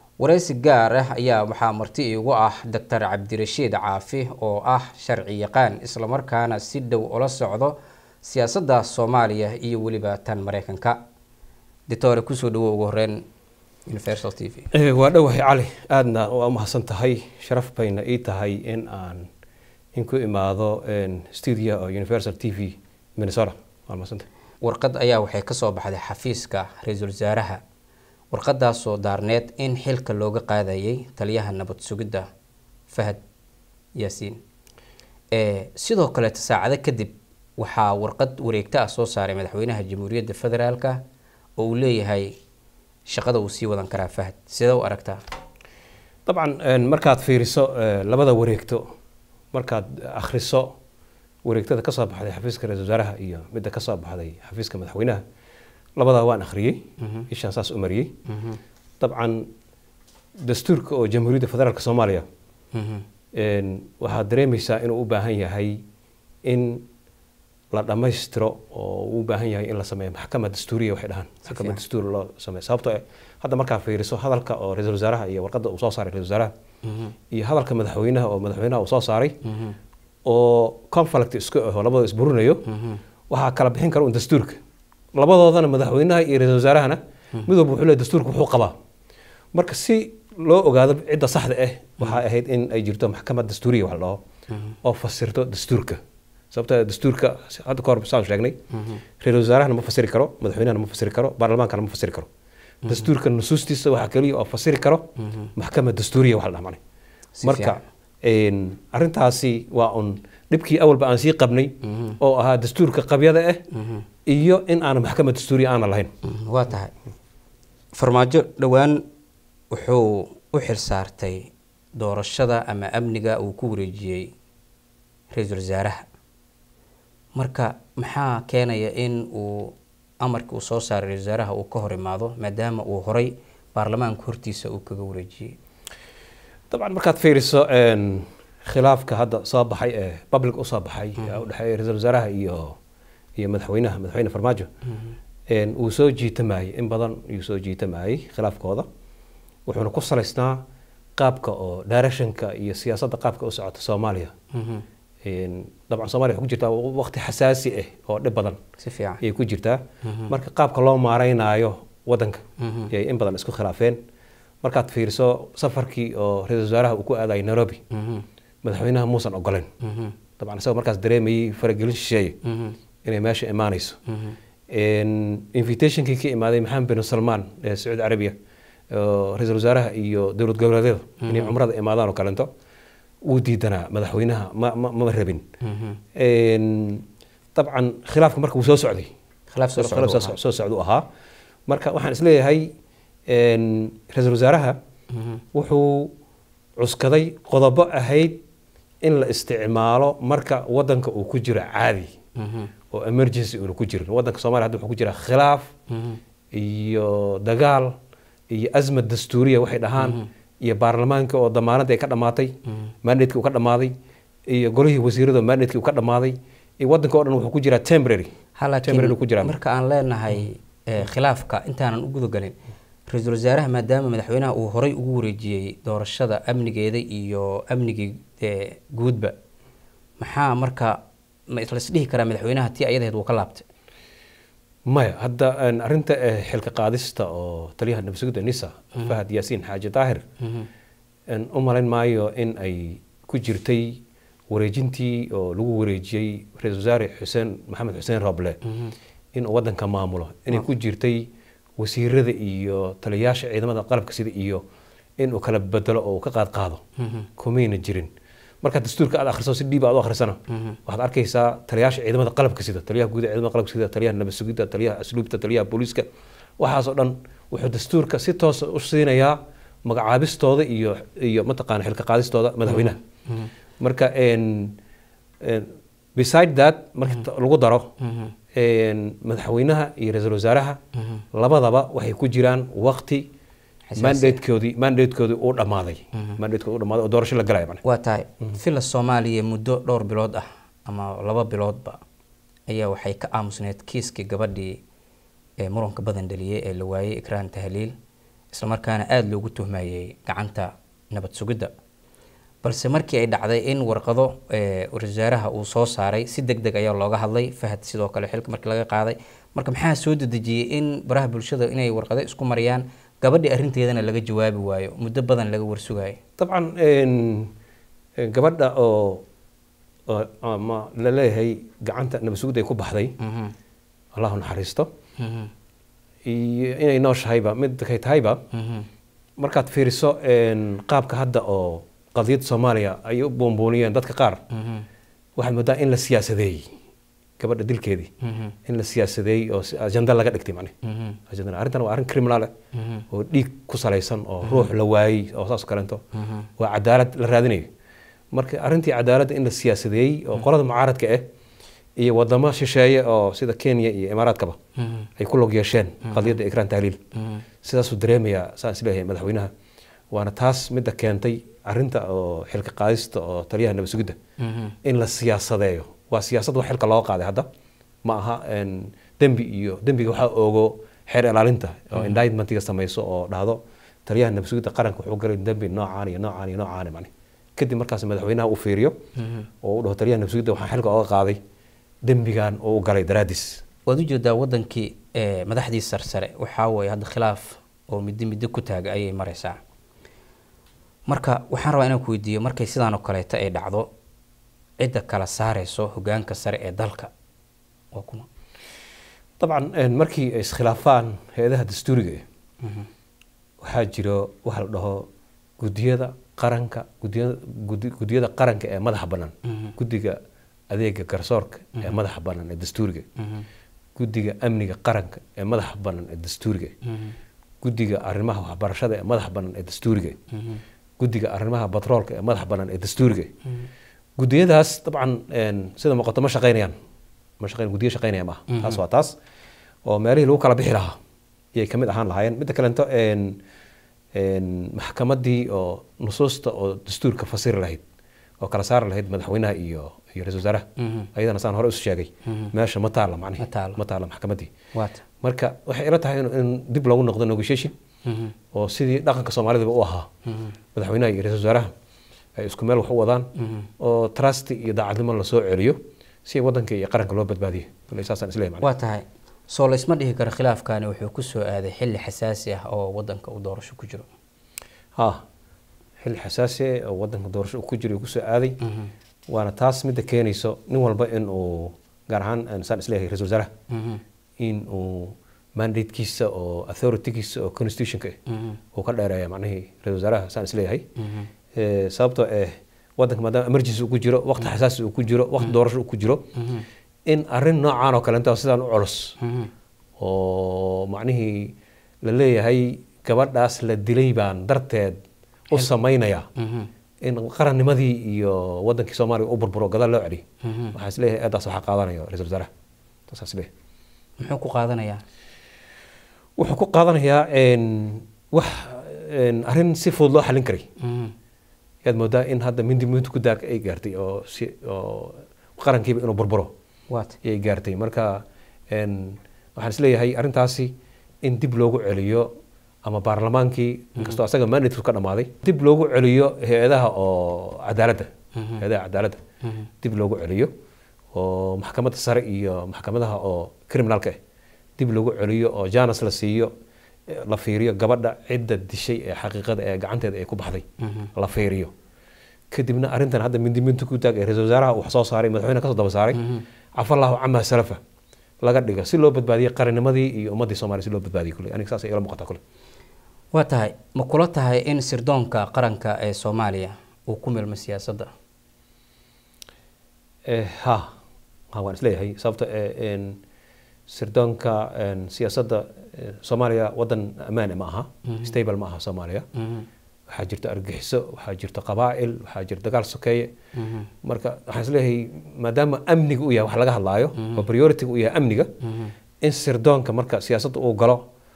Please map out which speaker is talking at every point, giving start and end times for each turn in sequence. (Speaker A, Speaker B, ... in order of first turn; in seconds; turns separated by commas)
Speaker A: 0.2-11.0, Speaker A: 11.9-13.2, Speaker A: 13.9-14.7, Speaker B: 14.7-19.3, Speaker B: 19.9-24.2, Speaker A: 24.6-27.6, Speaker A: 28.3-32.3, Speaker A: 32.9-33.2, Speaker A: 34.0-34.4, Speaker A: 35.3-41.0, Speaker A: 41.6-42.3, Speaker A: 43.1-45.2, Speaker B: 46.2-48.9, Speaker B: 49.5-50.7, Speaker B: 51.4-55.2, Speaker B: 56.0-58.1, Speaker A: 58.3-58.6, Speaker B: 59.0-59.5, Speaker B: 60.4-62.2, Speaker A: 62.7-63.0, Speaker B: 63.3-65.8, Speaker B: 66.4-66.8, Speaker B: 67.7-76.5, Speaker A: 71.5-71.8, Speaker A: 76.8-77.1, Speaker B: 77.3-79.4, Speaker A: 79.4-79.8, Speaker B: 80.2-82.6, Speaker A: 82.7-83.0, Speaker B: 83.3-84.6, Speaker B: 85.1-88.7, Speaker B: 89.5-94.2, Speaker A: 94.5-94.8, Speaker B: 94.8-96.0, Speaker B: 96.5-98.6, Speaker A: 98.7-99.0, Speaker B: 99.2-102.3, Speaker B: 102.8-106.8, Speaker A: 107.3-107.8, Speaker B: 107.4-113.6, Speaker A: 111.9-112.2, Speaker A: 113.7-114.0, Speaker B: 114.2-116.1, Speaker A: 116.2-116.9, Speaker A: 117.9-119.0, Speaker A: 119.7-124.3, Speaker A: 125.3-126.0, Speaker A: 127.3-135.6, Speaker B: 136.7-142.8, Speaker B: 143.3-144.7, Speaker B: 145.5-148.9, Speaker B: 149.7-150.6, Speaker B: 151.2-154.3, Speaker A: 154.5-154.8, Speaker B: 155.2-158.6, Speaker A: 158.8-159.2, Speaker B: 159.2-164.0, Speaker A: 160.0-160.3, Speaker A: 162.6-162.9, Speaker B: 164.6-167.8, Speaker A: 167.9-168.2, Speaker B: 168.6-169.7, Speaker A: 169.8-170.1, Speaker B: 170.4-172.4, Speaker A: 172.4-172.8, Speaker B: 173.0-174.0, Speaker A: 174.1-174.3, Speaker B: 174.7-178.3, Speaker B: 178.9-182.5, Speaker A: 181.2-181.5, Speaker B: 183.2-185.4, Speaker A: 185.6-186.0, Speaker B: 186.2-189.1, Speaker A: 189.5-190.4, Speaker B: 189.8-191.1, Speaker B: 191.7-192.7, Speaker B: 193.3-194.8, Speaker A: 195.1-195.4, Speaker B: 195.5-196.1, Speaker B: 196.8-198.4, Speaker B: 199.0-202.1, Speaker A: 202.4-202.7, Speaker B: 202.9-205.7, Speaker A: 205.9-206.2, Speaker B: 206.5-207.9, Speaker B: 208.5-213.9, Speaker A: 210.0-210.3, Speaker B: 214.5-218.3, Speaker A: 218.6-222.5, Speaker B: 218.8-219.5, Speaker A: 223.1-229.3, Speaker A: 230.2-230.9, Speaker A: 231.5-233.7, Speaker B: 234.9-240.2, Speaker A: 240.4-240.7, Speaker B: 241.3-248.6, Speaker B: 249.3-254.6, Speaker B: 255.2-256.8, Speaker A: 257.0-257.3, Speaker B: 257.4-266.1, Speaker A: 260.5-260.8, Speaker B: 266.6-273.0, Speaker A: 272.7-273.5, Speaker B: 273.8-274.8, Speaker B: 275.4-277.9, Speaker A: 278.0-278.3, Speaker B: 278.5-280.8, Speaker B: 281.3-283.3, Speaker A: 283.9-284.4, Speaker B: 284.0-287.8, Speaker A: 287.8-292.0, Speaker A: 292.7-294.8, Speaker A: 295.6-297.9, Speaker A: 298.5-301.7, Speaker A: 302.6-316.2, Speaker B: 316.4-317.5, Speaker B: 318.2-319.2, Speaker B: 320.1-323.2, Speaker A: 323.2-323.5, Speaker B: 324.1-324.9, Speaker A: 325.2-325.5, Speaker B: 326.2-328.4, Speaker A: 328.5-328.9, Speaker B: 329.4-334.4, Speaker A: 334.5-334.9, Speaker B: 335.4-336.7, Speaker B: 337.4-338.1, Speaker A: 338.2-338.5, Speaker B: 338.6-340.7, Speaker A: 340.9-341.2, Speaker B: 341.3-342.5, Speaker A: 342.7-343.0, Speaker B: 343.1-346.0, Speaker A: 346.1-346.5, Speaker B: 346.6-347.7, Speaker B: 348.3-351.2, Speaker B: 352.0-354.6, Speaker A: 354.8-355.1, Speaker B: 355.2-357.0, Speaker A: 356.1-356.3, Speaker B: 357.6-359.5, Speaker B: 360.1-364.2, Speaker A: 364.4-364.8, Speaker B: 364.8-367.5, Speaker B: 368.0-378.9, Speaker A: 379.2-379.5, Speaker B: 379.6-381.4, Speaker B: 382.0-383.6, Speaker A: 383.9-389.6, Speaker A: 391.1-393.9, Speaker A: 394.8-397.1, Speaker A: 397.9-398.3, Speaker B: 399.4-402.2, Speaker A: 402.6-402.9, Speaker B: 403.6-405.1, Speaker B: 405.6-410.2, Speaker B: 410.7-413.1, Speaker A: 413.2-413.4, Speaker B: 413.9-416.7, Speaker A: 416.9-417.1, Speaker B: 417.6-420.2, Speaker A: 420.3-420.6, Speaker B: 421.0-423.3, Speaker B: 424.2-426.7, Speaker B: 427.4-429.1, Speaker A: 428.5-428.8, Speaker B: 429.8-431.0, Speaker B: 431.5-433.4, Speaker B: 434.1-437.8, Speaker B: 438.4-444.5, Speaker A: 440.8-441.1, Speaker A: 442.3-442.5, Speaker A: 443.4-443.8, Speaker A: 444.7-445.0, Speaker B: 445.2-447.7, Speaker A: 448.1-448.3, Speaker B: 448.5-450.1, Speaker B: 450.7-451.7, Speaker B: 452.4-458.7, Speaker A: 453.4-453.7, Speaker A: 458.6-464.1, Speaker B: 464.9-465.2, Speaker B: 466.0-468.6, Speaker B: 469.3-473.5, Speaker A: 473.7-474.0, Speaker B: 474.4-478.2, Speaker A: 478.3-478.6, Speaker B: 478.7-480.9, Speaker A: 481.0-481.3, Speaker B: 481.5-486.3, Speaker A: 486.4-486.6, Speaker B: 487.1-489.2, Speaker A: 489.2-489.5, Speaker B: 490.0-495.0, Speaker B: 495.5-496.3, Speaker A: 496.4-496.7, Speaker B: 497.0-502.5, Speaker A: 500.4-500.7, Speaker B: 503.1-503.5, Speaker A: 504.2-505.0, Speaker B: 506.4-510.7, Speaker A: 510.8-511.1, Speaker B: 511.8-516.5, Speaker A: 516.9-517.2, Speaker B: 517.2-522.3, Speaker B: 522.8-529.2, Speaker A: 528.4-528.6, Speaker B: 529.8-530.5, Speaker B: 531.1-534.2, Speaker B: 534.8-536.5, Speaker B: 537.1-541.7, Speaker A: 540.8-541.1, Speaker B: 542.5-546.2, Speaker A: 546.1-546.4, Speaker B: 546.8-547.8, Speaker B: 548.4-552.4, Speaker A: 553.3-558.1, Speaker B: 560.2-560.9, Speaker B: 561.5-563.2, Speaker B: 563.9-569.2, Speaker A: 568.1-568.3, Speaker A: 569.4-569.7, Speaker B: 570.1-573.3, Speaker A: 573.6-573.9, Speaker B: 574.0-578.5, Speaker A: 577.2-577.5, Speaker A: 578.6-578.9, Speaker B: 579.2-581.0